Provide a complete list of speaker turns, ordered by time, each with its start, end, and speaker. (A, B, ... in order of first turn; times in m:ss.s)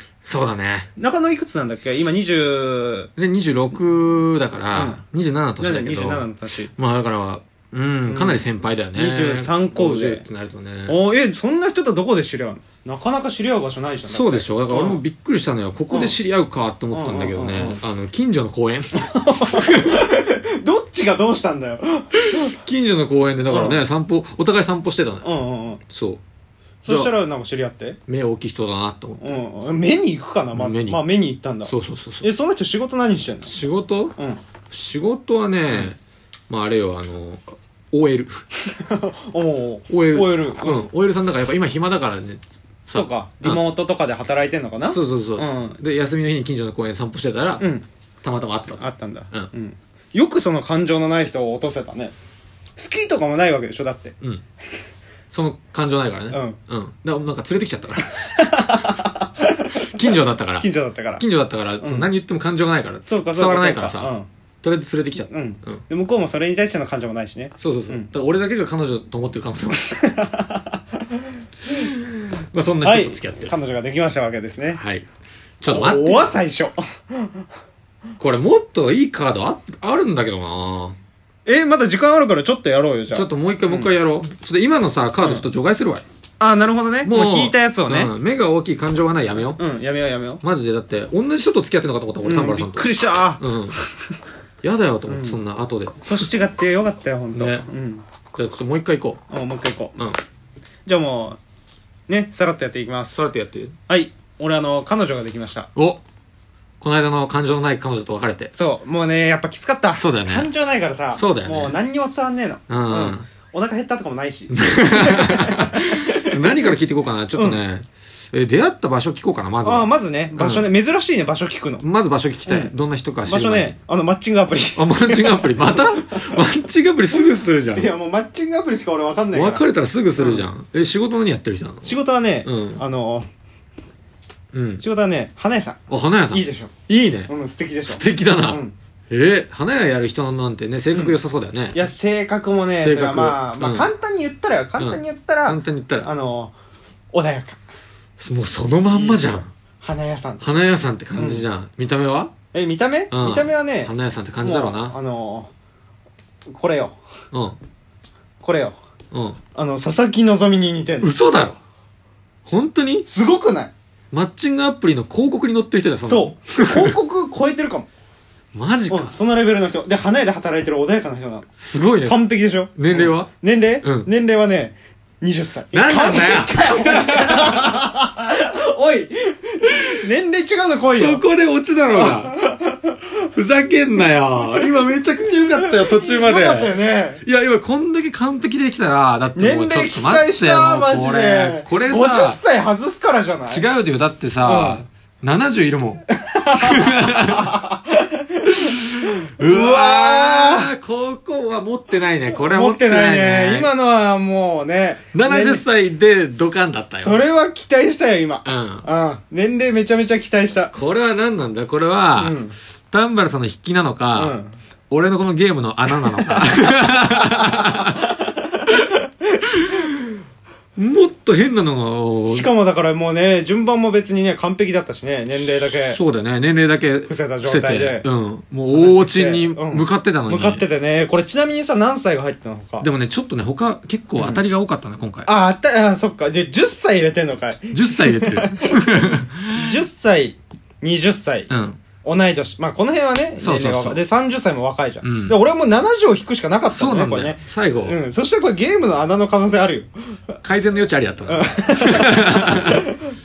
0:00.2-0:00.9 A
0:01.0-0:03.1 B
0:03.2-0:11.0 A
0:04.7-0:05.0 B
0:05.6-0:06.7 B
0:08.1-0:10.3 B
0:10.9-0:15.0 B
0:14.1-0:20.1 A
0:15.9-0:16.2 B
0:16.9-0:17.8 B
0:19.0-0:22.6 B
0:22.3-0:25.3 A
0:23.5-0:23.8 B
0:25.2-0:25.8 B
0:25.9-0:26.2 A
0:26.8-0:28.0 B
0:26.9-0:27.1 A
0:28.1-0:29.2 A
0:29.2-0:33.5 B
0:30.6-0:31.0 A
0:31.6-0:32.3 A
0:33.5-0:34.2 A
0:34.7-0:36.0 A
0:36.5-0:38.4 A
0:38.7-0:40.9 B
0:39.9-0:43.6 A
0:42.9-0:45.8 B
0:44.9-0:47.7 A
0:47.6-0:47.8 B
0:48.2-0:49.5 A
0:48.8-0:52.1 B
0:52.8-0:54.2 B
0:55.3-0:58.4 A
0:56.3-0:56.6 B
0:58.0-1:01.2 B
0:59.8-1:05.8 A
1:01.8-1:02.1 B
1:03.0-1:04.3 B
1:05.3-1:08.1 B
1:07.6-1:10.0 A
1:09.8-1:10.8 B
1:11.7-1:13.5 A
1:12.8-1:14.8 B
1:14.7-1:15.1 A
1:15.6-1:16.4 A
1:15.7-1:17.5 B
1:18.2-1:21.0 A
1:21.5-1:23.9 B
1:23.1-1:26.0 A
1:26.4-1:28.1 B
1:27.0-1:29.6 A
1:29.6-1:30.4 B
1:30.4-1:33.8 A
1:32.2-1:34.0 B
1:34.6-1:36.2 A
1:35.1-1:35.4 B
1:36.0-1:38.0 B
1:37.3-1:37.7 A
1:38.3-1:39.2 A
1:39.3-1:40.0 B
1:40.9-1:41.4 B
1:42.1-1:43.3 B
1:43.2-1:43.8 A
1:43.9-1:45.7 B
1:45.8-1:46.0 A
1:46.8-1:48.5 A
1:48.5-1:56.8 B
1:50.0-1:50.5 A
1:51.1-1:51.8 A
1:52.7-1:53.3 A
1:54.5-2:00.7 A
1:57.3-1:57.6 B
1:59.6-2:01.9 B
2:01.8-2:03.8 A
2:02.5-2:02.7 B
2:03.2-2:06.4 B
2:04.8-2:07.9 A
2:07.8-2:09.7 B
2:09.3-2:12.8 A
2:10.2-2:10.5 B
2:11.8-2:13.3 B
2:14.5-2:14.8 A
2:14.8-2:16.7 B
2:15.9-2:17.3 A
2:17.3-2:18.8 B
2:17.9-2:21.9 A
2:20.9-2:21.2 B
2:21.7-2:26.5 B
2:22.8-2:23.9 A
2:24.8-2:26.1 A
2:27.1-2:27.6 B
2:28.2-2:29.5 A
2:28.9-2:30.4 B
2:30.4-2:32.3 A
2:31.1-2:31.4 B
2:32.5-2:35.5 B
2:33.1-2:35.0 A
2:36.5-2:37.0 B
2:37.3-2:37.6 A
2:38.4-2:38.8 B
2:39.1-2:39.4 A
2:39.6-2:41.1 B
2:41.0-2:41.6 A
2:42.5-2:43.1 A
2:43.1-2:43.7 B
2:44.1-2:47.0 A
2:46.1-2:47.9 B
2:48.5-2:49.2 A
2:48.9-2:51.5 B
2:51.6-2:52.2 A
2:52.0-3:01.2 B
2:52.8-2:53.3 A
2:53.8-2:54.1 A
2:55.7-2:57.8 A
2:59.7-3:02.4 A
3:01.9-3:03.1 B
3:03.3-3:12.4 A
3:05.4-3:07.2 B
3:09.4-3:13.7 B
3:13.5-3:17.6 A
3:14.4-3:14.8 B
3:16.2-3:20.7 B
3:18.5-3:23.7 A
3:22.4-3:25.6 B
3:25.1-3:27.2 A
3:27.0-3:30.7 B
3:28.4-3:28.9 A
3:30.7-3:32.4 A
3:32.2-3:32.6 B
3:32.9-3:34.4 A
3:34.1-3:34.5 B
3:34.9-3:38.0 A
3:36.1-3:38.9 B
3:39.5-3:40.2 A
3:40.8-3:42.5 A
3:42.3-3:46.0 B
3:45.9-3:50.6 A
3:47.1-3:48.1 B
3:48.7-3:52.9 B
3:52.8-3:55.3 A
3:54.2-3:54.4 B
3:55.2-4:01.5 B
3:57.7-3:59.7 A
4:01.5-4:01.8 A
4:02.0-4:09.9 B
4:03.4-4:04.0 A
4:05.0-4:05.4 A
4:06.7-4:08.0 A
4:10.4-4:12.9 A
4:11.3-4:12.9 B